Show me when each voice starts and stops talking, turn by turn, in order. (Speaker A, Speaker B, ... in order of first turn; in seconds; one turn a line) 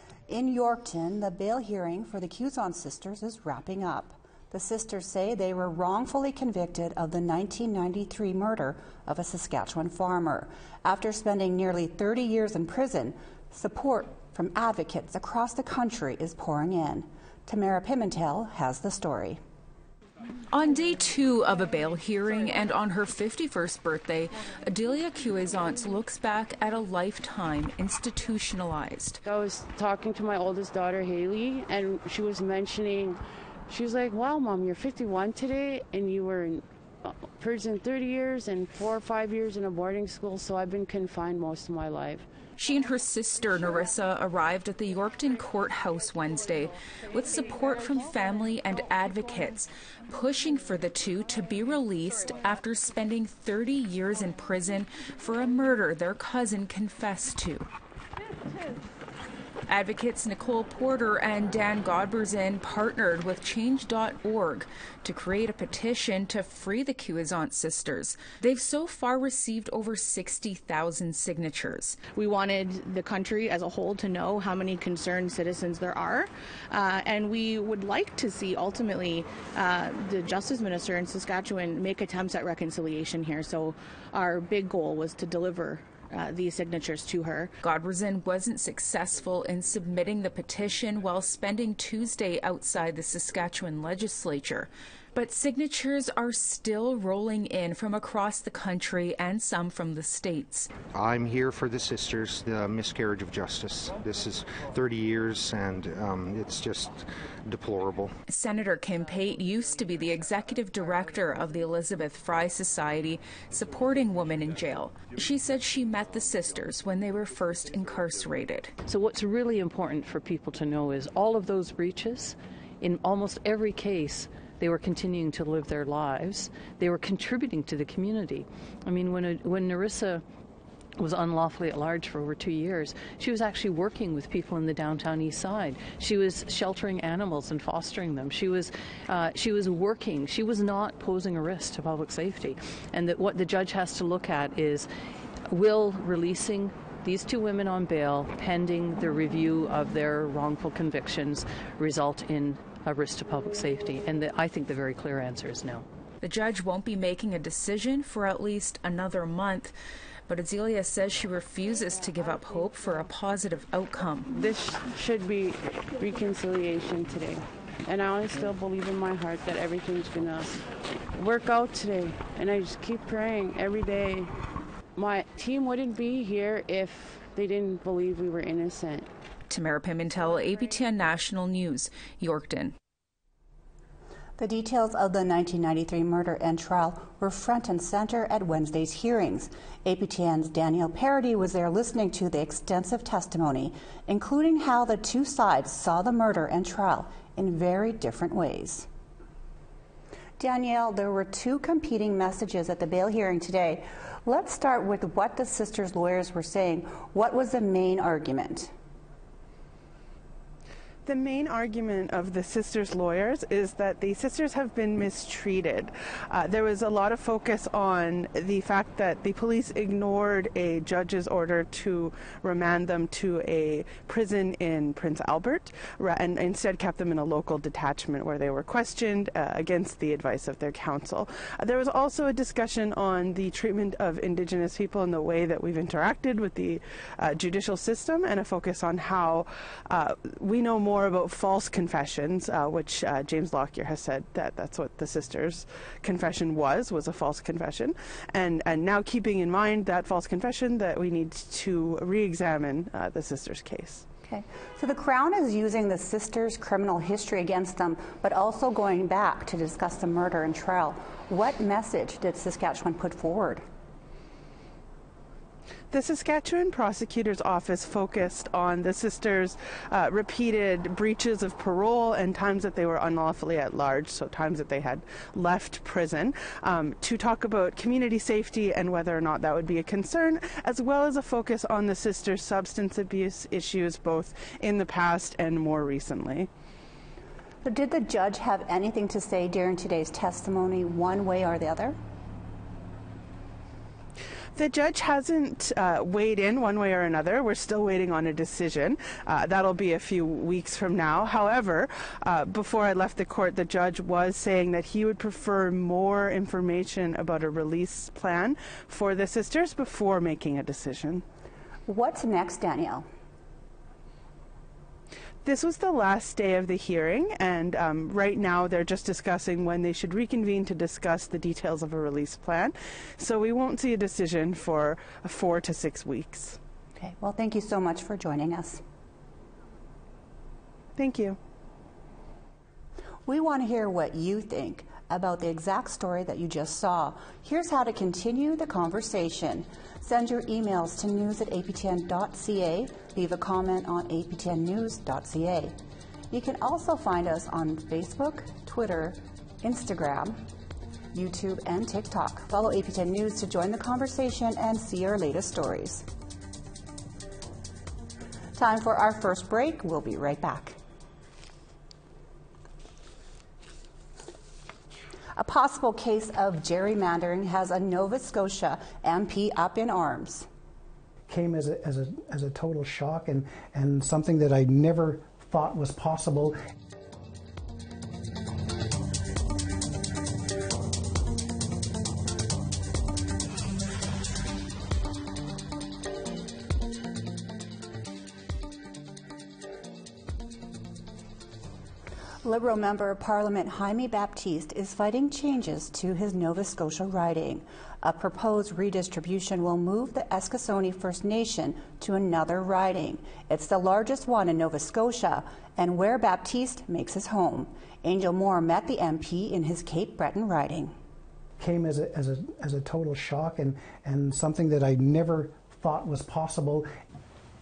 Speaker A: 0.3-19.4
Speaker B: 20.5-29.2
Speaker C: 29.2-36.6
Speaker C: 37.2-42.3
Speaker B: 42.5-57.7
Speaker B: 59.7-72.0
Speaker D: 72.1-87.5
Speaker B: 87.6-100.7
Speaker E: 100.9-108.1
Speaker B: 108.3-118.7
Speaker F: 118.8-130.2
Speaker F: 131.0-144.9
Speaker F: 145.5-155.8
Speaker B: 156.2-159.7
Speaker B: 160.3-164.3
Speaker C: 164.3-174.3
Speaker C: 174.9-179.1
Speaker B: 179.5-182.7
Speaker A: 184.4-198.9
Speaker A: 200.4-208.7
Speaker G: 211.0-254.0
Speaker A: 254.2-263.6
Speaker G: 265.9-286.5
Speaker A: 287.6-292.0
Speaker G: 294.5-311.2
Speaker A: 311.9-313.1
Speaker G: 315.4-326.6
Speaker A: 327.0-328.8
Speaker G: 330.9-331.4
Speaker A: 333.2-345.7
Speaker A: 346.3-350.4
Speaker A: 351.1-356.0
Speaker A: 358.6-360.8
Speaker A: 365.4-370.5
Speaker H: 371.3-376.6
Speaker A: 392.4-410.9
Speaker H: 411.6-416.9